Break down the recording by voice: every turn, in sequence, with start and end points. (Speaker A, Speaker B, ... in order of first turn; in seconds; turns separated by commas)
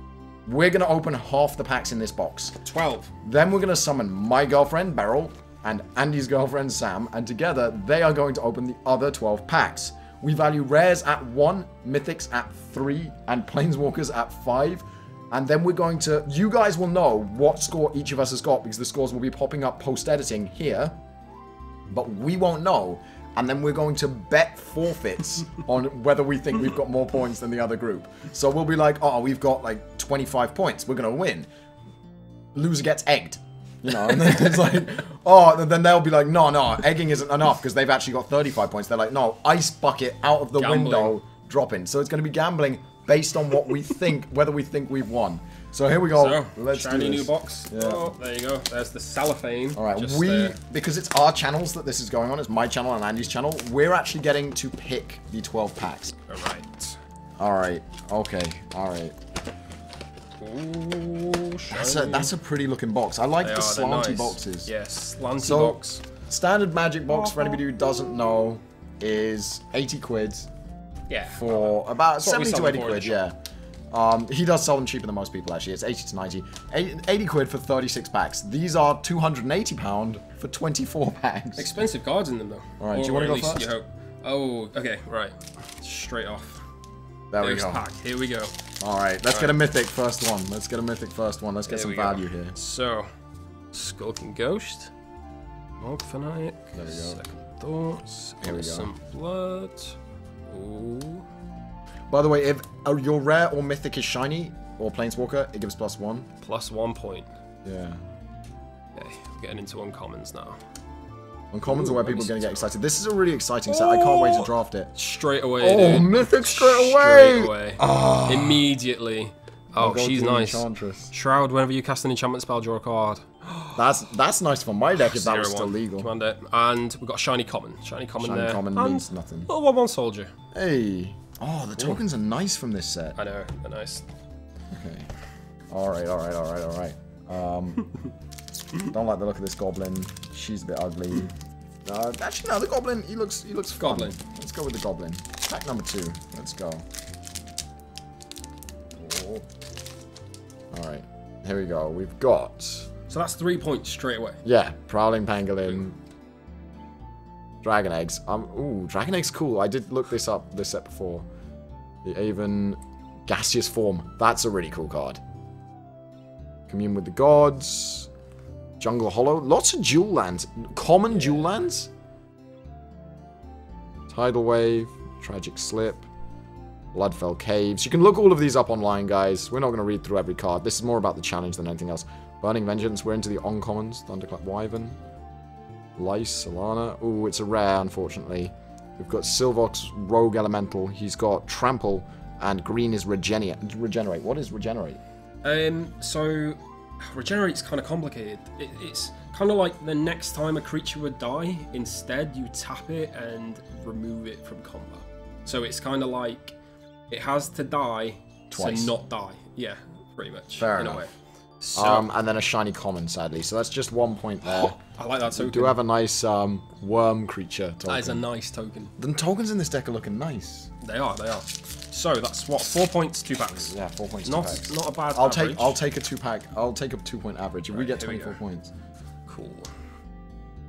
Speaker A: 0.5-2.6, Speaker B: 2.6-3.1, Speaker A: 3.2-21.0, Speaker A: 21.9-31.5, Speaker A: 32.5-48.1, Speaker B: 40.6-41.2, Speaker B: 46.1-50.6, Speaker A: 49.8-56.2, Speaker B: 56.3-57.0, Speaker A: 57.4-59.2, Speaker B: 60.4-62.3, Speaker A: 61.7-64.7, Speaker B: 63.4-66.0, Speaker A: 65.4-70.5, Speaker B: 67.2-67.6, Speaker B: 71.1-73.2, Speaker A: 71.3-73.3, Speaker A: 73.9-81.8, Speaker B: 81.6-86.6, Speaker A: 82.8-83.7, Speaker A: 87.3-87.8, Speaker B: 87.4-88.5, Speaker A: 88.8-92.6, Speaker B: 89.3-89.6, Speaker B: 91.7-93.1, Speaker B: 93.7-94.9, Speaker B: 95.8-100.0, Speaker A: 96.8-97.2, Speaker A: 98.4-98.9, Speaker B: 100.5-101.3, Speaker A: 102.1-106.3, Speaker B: 106.4-107.3, Speaker A: 107.7-108.0, Speaker B: 109.0-110.6, Speaker A: 111.5-114.9, Speaker B: 111.7-112.7, Speaker B: 113.7-123.9, Speaker A: 115.6-118.7, Speaker A: 119.8-121.1, Speaker A: 123.8-126.1, Speaker B: 125.0-130.3, Speaker A: 128.2-129.5, Speaker A: 130.5-133.2, Speaker B: 133.2-134.1, Speaker A: 134.7-135.1, Speaker A: 135.7-137.9, Speaker A: 138.8-141.3, Speaker A: 141.8-146.9, Speaker B: 143.8-144.2, Speaker A: 149.0-149.4, Speaker A: 150.7-152.9, Speaker B: 153.1-154.4, Speaker A: 154.4-156.0, Speaker A: 157.6-161.3, Speaker A: 162.0-165.2, Speaker A: 166.7-168.1, Speaker A: 168.8-171.9, Speaker B: 171.2-171.5, Speaker A: 174.1-176.1, Speaker A: 176.9-185.0, Speaker A: 186.0-195.0, Speaker B: 195.4-206.6, Speaker B: 207.1-212.1, Speaker A: 208.5-208.9, Speaker A: 210.6-211.1, Speaker A: 211.8-214.8, Speaker B: 214.4-215.8, Speaker A: 215.3-218.2, Speaker B: 217.9-218.9, Speaker A: 219.0-220.7, Speaker B: 220.8-225.8, Speaker A: 223.6-228.7, Speaker B: 227.7-228.4, Speaker B: 229.3-229.7